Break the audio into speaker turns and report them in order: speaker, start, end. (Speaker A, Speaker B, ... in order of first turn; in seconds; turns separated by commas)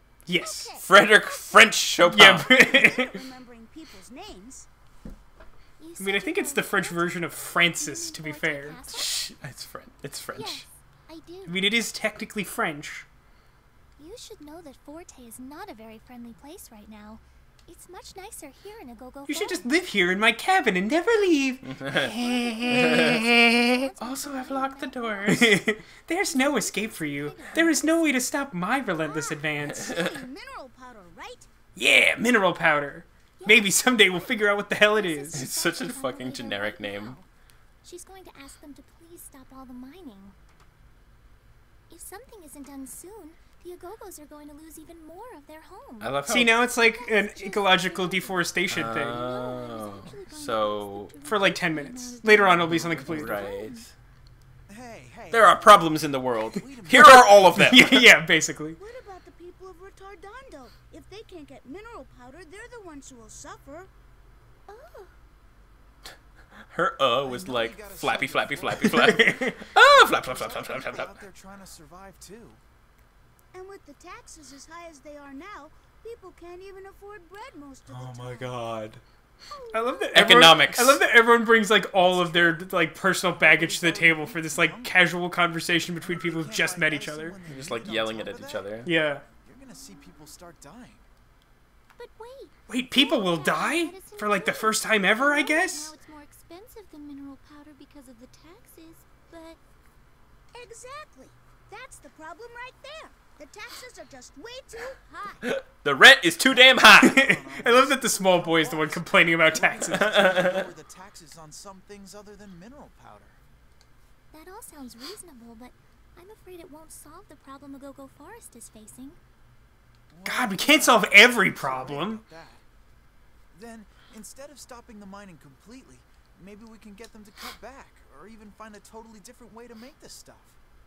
Speaker A: 0.3-0.7, Speaker B: 0.3-4.7, Speaker C: 0.8-2.5, Speaker A: 2.0-3.2, Speaker D: 5.8-9.2, Speaker A: 6.0-8.8, Speaker C: 8.9-10.7, Speaker D: 10.3-11.8, Speaker A: 11.5-13.1, Speaker D: 14.0-19.7, Speaker A: 19.3-23.9, Speaker C: 21.7-22.1, Speaker D: 21.9-25.6, Speaker C: 22.7-23.3, Speaker C: 24.0-25.6, Speaker A: 25.3-29.9, Speaker B: 26.3-28.0, Speaker D: 26.6-27.8, Speaker B: 29.0-31.5, Speaker A: 31.8-35.4, Speaker D: 33.4-33.9, Speaker D: 34.9-37.2, Speaker C: 35.3-37.2, Speaker D: 37.8-40.4, Speaker D: 41.9-46.2, Speaker C: 46.0-46.5, Speaker A: 46.3-49.2, Speaker D: 46.8-53.9, Speaker C: 48.7-51.1, Speaker A: 51.2-53.4, Speaker C: 52.6-53.9, Speaker E: 54.7-57.7, Speaker C: 55.3-58.1, Speaker A: 56.9-58.8, Speaker B: 58.8-63.9, Speaker D: 64.7-65.1, Speaker C: 66.7-71.2, Speaker E: 67.2-72.6, Speaker A: 68.9-69.6, Speaker B: 73.5-78.7, Speaker C: 77.9-79.0, Speaker B: 79.5-80.2, Speaker A: 79.7-87.4, Speaker C: 80.1-81.0, Speaker E: 81.9-82.6, Speaker E: 83.3-85.0, Speaker E: 86.0-91.1, Speaker C: 87.5-88.9, Speaker A: 88.8-89.2, Speaker D: 92.0-99.6, Speaker A: 92.7-95.9, Speaker B: 100.5-105.5, Speaker C: 105.4-107.2, Speaker E: 106.4-113.4, Speaker A: 107.0-110.2, Speaker C: 109.9-110.7, Speaker D: 114.3-119.2, Speaker E: 120.1-122.6, Speaker A: 120.2-122.2, Speaker E: 123.5-130.6